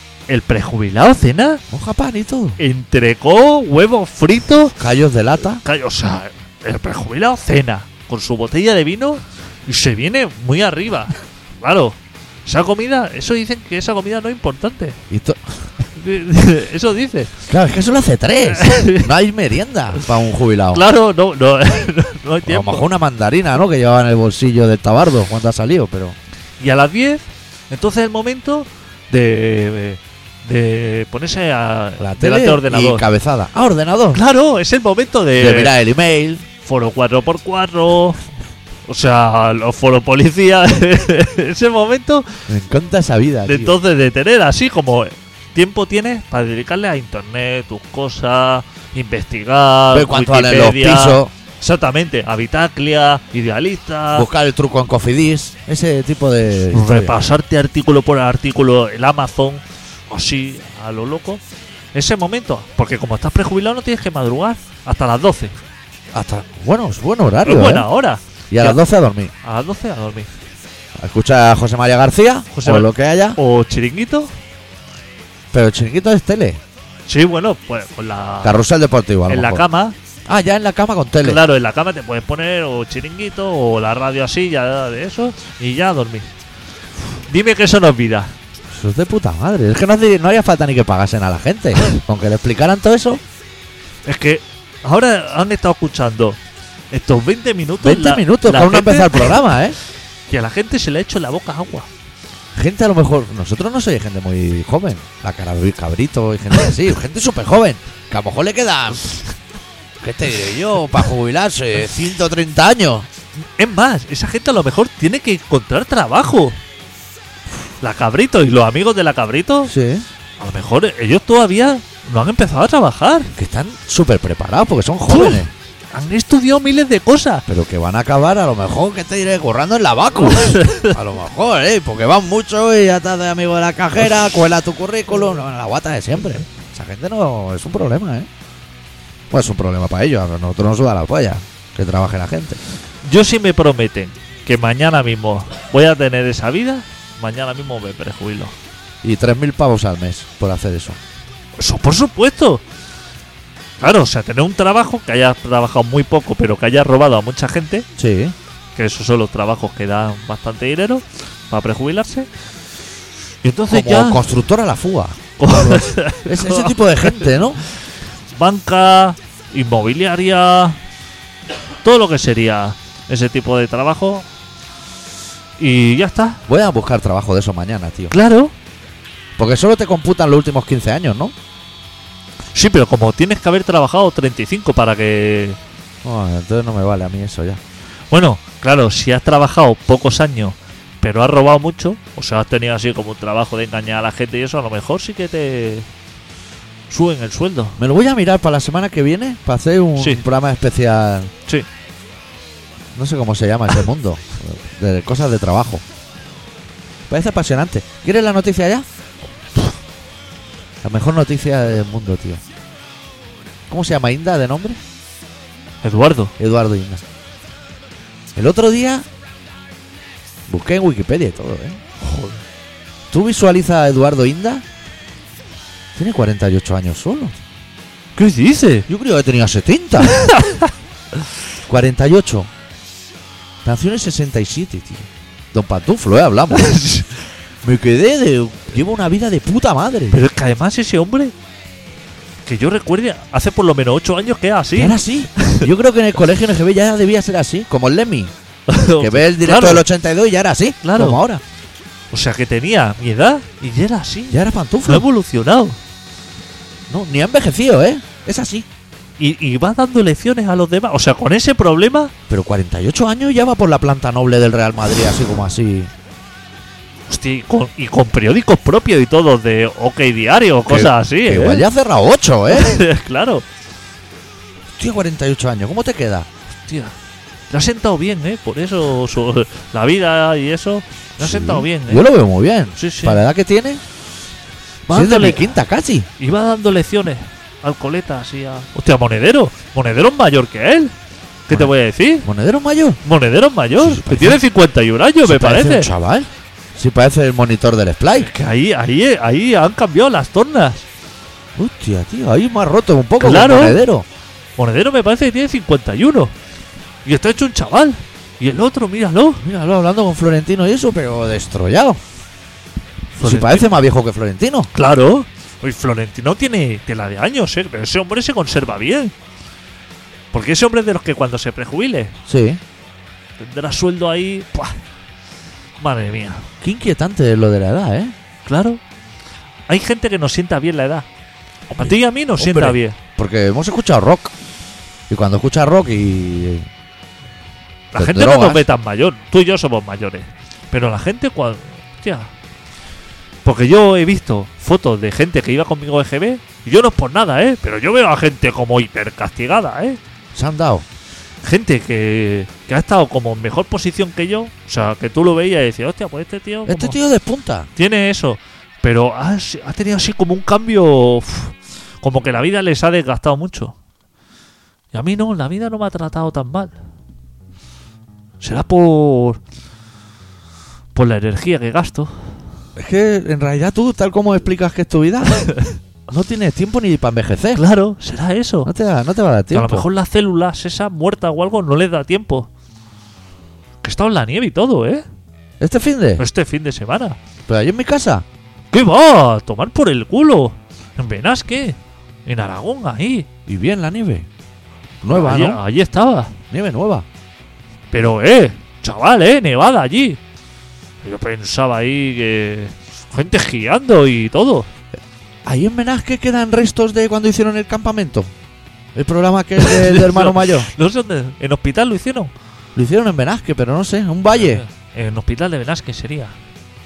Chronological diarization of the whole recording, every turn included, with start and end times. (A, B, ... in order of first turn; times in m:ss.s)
0:00.3-0:01.6 A
0:01.7-0:02.6 B
0:02.6-0:04.8 A
0:04.8-0:05.6 B
0:05.6-0:15.0 A
0:15.1-0:15.4 B
0:15.9-0:17.3 A
0:17.5-0:20.8 B
0:18.5-0:19.1 A
0:20.7-0:22.8 A
0:22.4-0:26.2 B
0:26.6-0:33.0 A
0:32.0-0:34.2 B
0:34.1-0:35.8 A
0:35.4-0:36.4 B
0:36.6-0:38.2 A
0:38.9-0:42.4 A
0:42.5-0:43.8 B
0:43.5-0:54.3 A
0:49.9-0:51.3 B
0:54.2-0:57.2 B
0:56.7-1:01.4 A
1:01.9-1:05.6 A
1:06.1-1:07.9 B
1:07.4-1:08.8 A
1:08.5-1:09.3 B
1:09.4-1:10.3 A
1:11.0-1:13.4 B
1:12.5-1:14.3 A
1:15.5-1:16.6 B
1:17.1-1:18.6 A
1:18.4-1:19.6 B
1:19.3-1:20.0 A
1:20.3-1:21.4 B
1:21.2-1:26.3 A
1:27.3-1:28.4 A
1:28.7-1:33.2 B
1:34.1-1:36.4 A
1:36.9-1:39.4 A
1:37.8-1:39.8 B
1:40.3-1:41.9 A
1:42.6-1:49.2 B
1:50.0-1:53.1 B
1:53.6-1:56.6 A
1:57.8-1:59.7 A
1:59.7-2:00.1 B
2:00.4-2:03.3 A
2:03.4-2:05.5 B
2:05.1-2:07.4 A
2:07.5-2:18.3 B
2:10.3-2:10.9 A
2:19.3-2:22.6 B
2:23.0-2:28.6 A
2:29.0-2:31.0 B
2:31.6-2:32.6 A
2:33.8-2:37.9 A
2:38.0-2:38.4 B
2:38.8-2:42.3 A
2:43.4-2:44.2 A
2:43.7-2:47.6 B
2:45.4-2:47.3 A
2:48.3-2:50.8 A
2:51.8-2:54.2 A
2:55.6-2:56.4 A
2:56.5-2:58.1 B
2:58.1-2:58.5 A
2:59.4-3:01.3 B
3:02.5-3:05.6 A
3:06.0-3:07.6 B
3:08.1-3:15.9 A
3:16.9-3:17.8 A
3:17.8-3:21.3 B
3:20.0-3:20.2 A
3:23.0-3:25.8 B
3:27.1-3:28.9 B
3:30.8-3:32.4 B
3:33.7-3:34.8 B
3:35.8-3:36.3 A
3:36.4-3:37.0 B
3:38.4-3:39.1 B
3:40.5-3:41.8 B
3:42.0-3:42.4 A
3:43.1-3:44.6 B
3:46.0-3:47.4 B
3:48.2-3:48.9 A
3:48.9-3:50.2 B
3:50.1-3:50.7 A
3:51.7-3:52.5 B
3:53.6-3:56.7 B
3:56.5-3:57.2 A
3:57.6-4:00.2 B
4:00.1-4:01.3 A
4:02.5-4:05.7 A
4:04.8-4:08.3 B
4:08.7-4:09.8 A
4:09.0-4:11.4 B
4:10.8-4:11.2 A
4:12.1-4:15.8 A
4:14.3-4:15.1 B
4:16.9-4:18.7 B
4:19.2-4:22.1 A
4:22.3-4:25.9 B
4:27.1-4:31.7 A
4:30.7-4:32.8 B
4:32.5-4:33.4 A
4:34.8-4:36.3 B
4:36.7-4:36.9 A
4:37.5-4:42.1 A
4:41.2-4:43.8 B
4:42.8-4:43.2 A
4:44.9-4:45.5 A
4:44.9-4:46.1 B
4:46.2-4:50.9 A
4:51.5-4:52.3 A
4:52.2-4:53.0 B
4:53.0-4:55.9 A
4:53.8-4:54.4 B
4:55.2-4:58.3 B
4:58.2-5:00.9 A
5:01.6-5:04.1 B
5:03.2-5:03.8 A
5:04.6-5:06.3 A
5:07.0-5:09.4 A
5:09.4-5:12.0 B
5:13.2-5:13.7 A
5:13.2-5:14.7 B
5:14.7-5:19.1 A
5:20.3-5:22.1 A
5:22.3-5:22.6 B
5:23.4-5:24.8 A
5:25.8-5:26.4 A
5:26.6-5:28.1 B
5:28.5-5:28.8 A
5:29.7-5:31.1 A
5:31.7-5:34.3 B
5:31.8-5:33.0 A
5:35.1-5:36.7 B
5:37.9-5:42.3 A
5:38.0-5:38.6 B
5:43.4-5:50.0 A
5:50.3-5:50.8 B
5:51.4-5:57.0 A
5:56.7-5:57.7 B
5:57.8-6:03.8 A
6:04.9-6:06.7 A
6:08.4-6:09.4 A
6:11.0-6:12.1 A
6:12.8-6:15.4 B
6:15.4-6:15.8 A
6:16.1-6:17.6 B
6:17.6-6:18.7 A
6:18.6-6:19.9 B
6:19.5-6:22.5 A
6:23.8-6:25.0 A
6:25.6-6:26.2 B
6:26.2-6:27.2 A
6:27.5-6:28.2 B
6:28.7-6:33.3 A
6:33.5-6:34.3 B
6:35.0-6:35.6 B
6:35.1-6:36.3 A
6:36.5-6:37.1 B
6:37.9-6:40.2 A
6:41.0-6:44.7 A
6:45.4-6:48.3 B
6:49.0-6:50.7 B
6:49.6-6:52.3 A
6:52.8-6:54.6 B
6:54.3-6:56.4 A